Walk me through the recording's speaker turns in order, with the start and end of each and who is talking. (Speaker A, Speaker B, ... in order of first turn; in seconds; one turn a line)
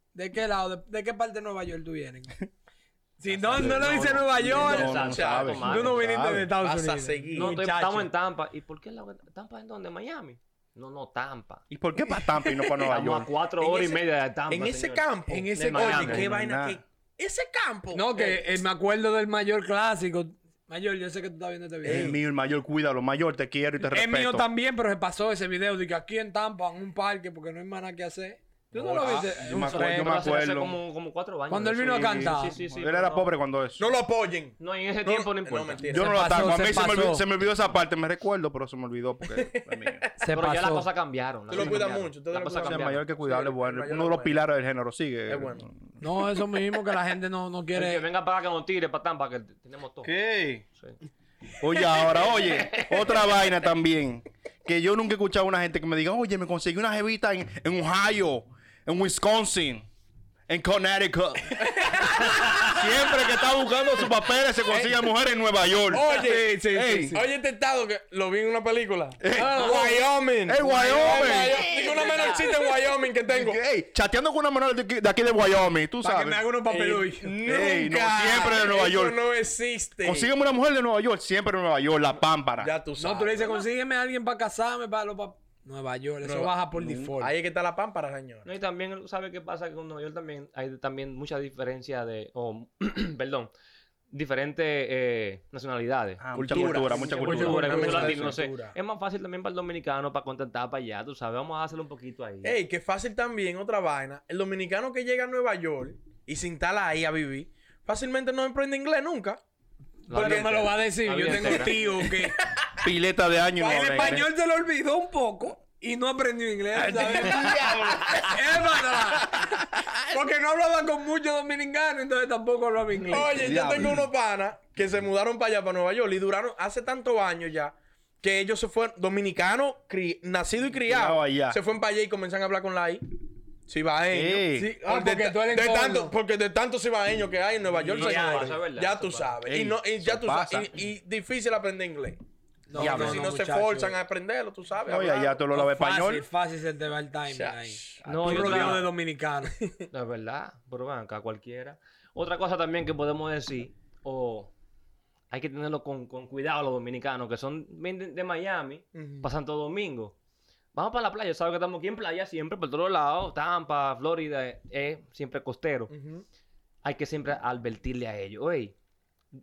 Speaker A: 0.1-2.5
Speaker A: 3.2-8.1
Speaker B: 3.3-6.0
Speaker C: 4.4-6.5
Speaker D: 4.5-5.8
Speaker D: 6.6-7.6
Speaker B: 7.3-11.6
Speaker C: 11.7-13.3
Speaker B: 12.8-16.3
Speaker D: 13.6-18.6
Speaker A: 15.3-16.2
Speaker C: 15.9-16.8
Speaker A: 17.9-22.1
Speaker D: 21.8-22.2
Speaker C: 21.8-24.5
Speaker A: 23.9-30.2
Speaker C: 28.7-30.8
Speaker B: 29.6-33.3
Speaker A: 31.5-32.6
Speaker C: 32.7-33.9
Speaker D: 33.8-36.3
Speaker B: 34.6-36.0
Speaker C: 35.9-40.0
Speaker A: 35.9-37.2
Speaker D: 39.3-40.1
Speaker A: 40.2-40.9
Speaker B: 40.3-43.0
Speaker D: 41.5-44.4
Speaker C: 41.5-41.9
Speaker C: 42.6-46.0
Speaker D: 45.3-45.6
Speaker A: 46.0-48.0
Speaker B: 47.7-50.1
Speaker C: 50.0-50.6
Speaker C: 51.6-59.9
Speaker B: 51.9-53.4
Speaker C: 60.5-61.6
Speaker D: 61.7-62.8
Speaker B: 62.3-62.7
Speaker C: 62.6-67.2
Speaker D: 64.7-65.1
Speaker D: 65.9-66.5
Speaker A: 65.9-67.3
Speaker D: 67.1-73.6
Speaker C: 69.2-69.8
Speaker A: 69.3-70.1
Speaker C: 70.5-72.5
Speaker A: 71.0-72.6
Speaker C: 73.3-76.4
Speaker A: 76.0-77.4
Speaker D: 76.7-80.3
Speaker C: 77.4-79.2
Speaker C: 80.0-82.7
Speaker D: 82.6-83.7
Speaker A: 83.0-87.3
Speaker D: 86.2-86.5
Speaker C: 86.8-87.1
Speaker D: 87.2-88.5
Speaker B: 88.5-93.5
Speaker B: 94.1-102.6
Speaker C: 96.2-98.3
Speaker D: 96.3-98.8
Speaker D: 102.4-109.4
Speaker B: 110.1-111.8
Speaker A: 110.1-112.4
Speaker D: 110.1-112.1
Speaker C: 112.8-114.3
Speaker D: 113.6-114.2
Speaker A: 113.6-117.6
Speaker C: 116.7-119.9
Speaker B: 117.2-118.2
Speaker A: 118.2-119.4
Speaker A: 120.1-123.4
Speaker D: 123.1-133.1
Speaker C: 123.3-124.1
Speaker C: 130.9-131.6
Speaker D: 133.7-142.2
Speaker C: 134.1-134.7
Speaker A: 134.5-136.1
Speaker B: 137.7-139.4
Speaker A: 137.9-138.6
Speaker C: 139.4-140.7
Speaker A: 142.7-144.0
Speaker C: 142.7-143.3
Speaker D: 142.7-145.4
Speaker C: 144.9-146.3
Speaker A: 145.5-149.5
Speaker D: 147.3-148.9
Speaker C: 148.0-148.8
Speaker B: 148.1-148.8
Speaker B: 149.9-154.5
Speaker B: 155.3-160.2
Speaker D: 158.9-159.3
Speaker B: 160.8-165.9
Speaker D: 165.9-166.2
Speaker B: 166.8-168.8